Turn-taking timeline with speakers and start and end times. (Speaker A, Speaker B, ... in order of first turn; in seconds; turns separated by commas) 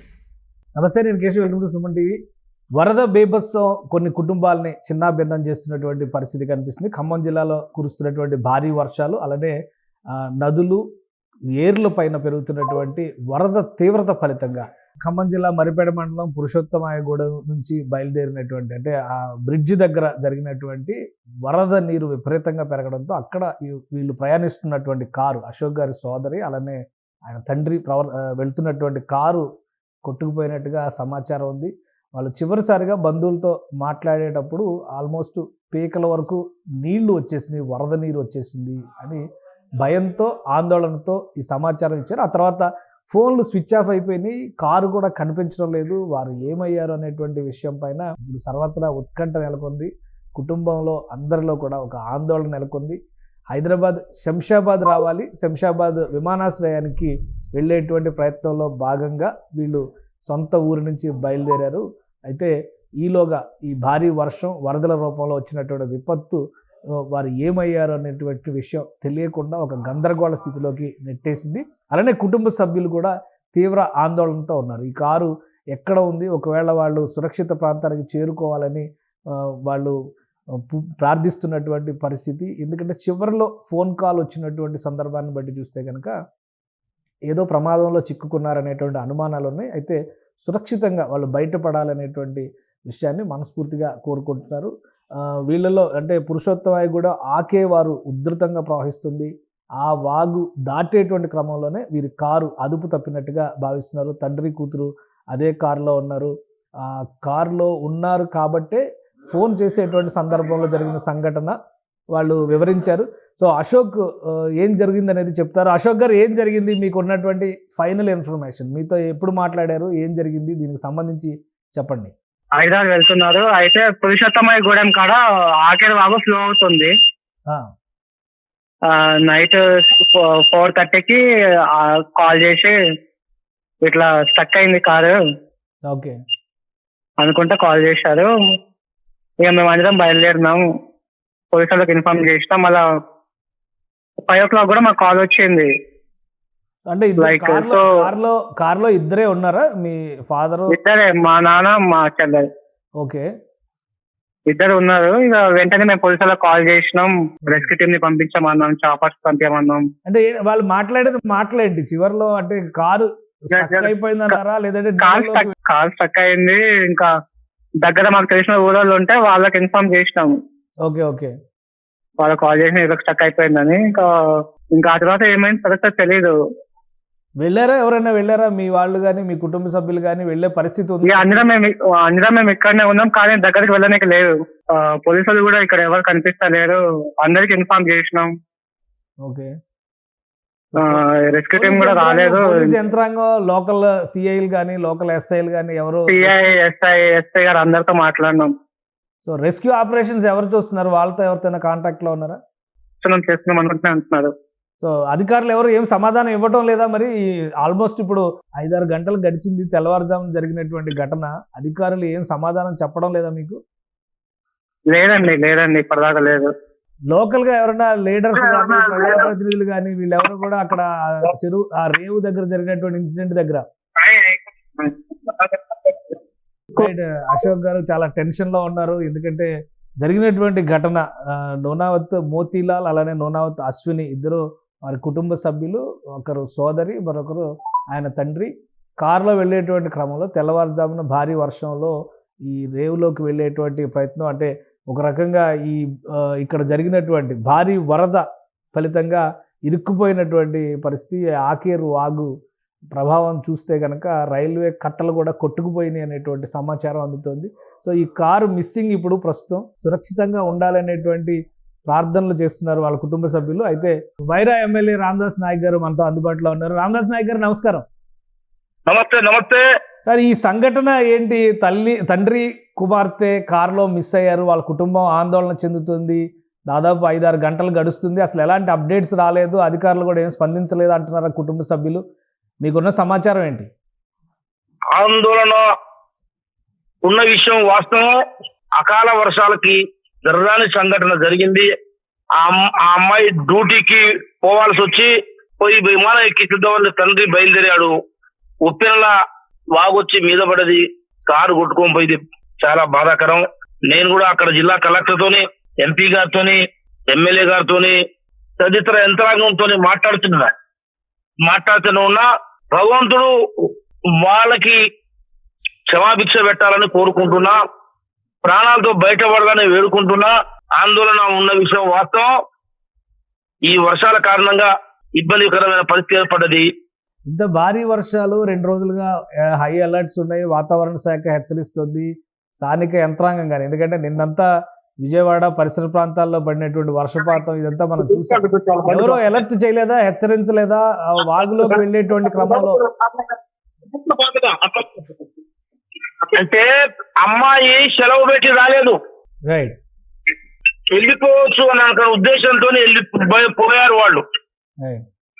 Speaker A: 0.8-2.1, Speaker A: 2.8-9.6, Speaker A: 10.1-10.8, Speaker A: 11.6-29.5, Speaker A: 30.1-39.2, Speaker A: 39.8-53.0, Speaker A: 53.5-66.4, Speaker A: 67.0-80.0, Speaker A: 80.5-86.2, Speaker A: 87.3-111.6, Speaker A: 112.1-122.1, Speaker B: 122.6-126.9, Speaker B: 128.9-131.2, Speaker B: 131.8-132.7, Speaker B: 133.8-135.2, Speaker A: 135.8-136.2, Speaker B: 137.2-138.3, Speaker B: 139.4-140.6, Speaker B: 141.5-142.8, Speaker B: 144.3-145.7, Speaker A: 146.9-150.8, Speaker B: 147.2-147.8, Speaker B: 150.7-152.5, Speaker A: 153.0-153.3, Speaker B: 154.5-159.9, Speaker A: 157.4-157.7, Speaker A: 160.1-165.5, Speaker B: 163.6-163.9, Speaker B: 165.0-167.1, Speaker B: 167.8-170.4, Speaker A: 170.8-171.3, Speaker B: 172.2-174.1, Speaker B: 174.8-176.3, Speaker A: 177.4-181.5, Speaker B: 181.1-188.3, Speaker A: 189.2-189.5, Speaker A: 190.7-196.4, Speaker B: 191.0-191.8, Speaker B: 192.4-192.7, Speaker B: 196.3-198.5, Speaker A: 199.2-202.4, Speaker B: 203.0-204.3, Speaker A: 204.8-213.6, Speaker B: 214.9-216.5, Speaker A: 217.1-223.6, Speaker A: 226.7-229.5, Speaker A: 230.0-241.9, Speaker A: 242.4-252.3, Speaker A: 252.9-267.9, Speaker C: 268.9-269.6, Speaker A: 270.1-282.0, Speaker A: 282.6-283.7, Speaker C: 285.0-285.6, Speaker C: 287.1-288.1, Speaker C: 288.8-291.7, Speaker C: 292.4-295.1, Speaker C: 295.6-297.9, Speaker C: 298.7-299.1, Speaker C: 299.8-306.6, Speaker C: 307.1-308.0, Speaker C: 308.6-310.5, Speaker C: 311.5-314.8, Speaker C: 315.9-317.6, Speaker C: 318.4-322.3, Speaker C: 323.7-326.7, Speaker A: 327.3-334.5, Speaker A: 335.0-342.8, Speaker C: 338.4-338.9, Speaker C: 343.9-345.1, Speaker C: 346.3-346.7, Speaker C: 347.2-349.0, Speaker A: 349.5-349.8, Speaker C: 350.9-354.2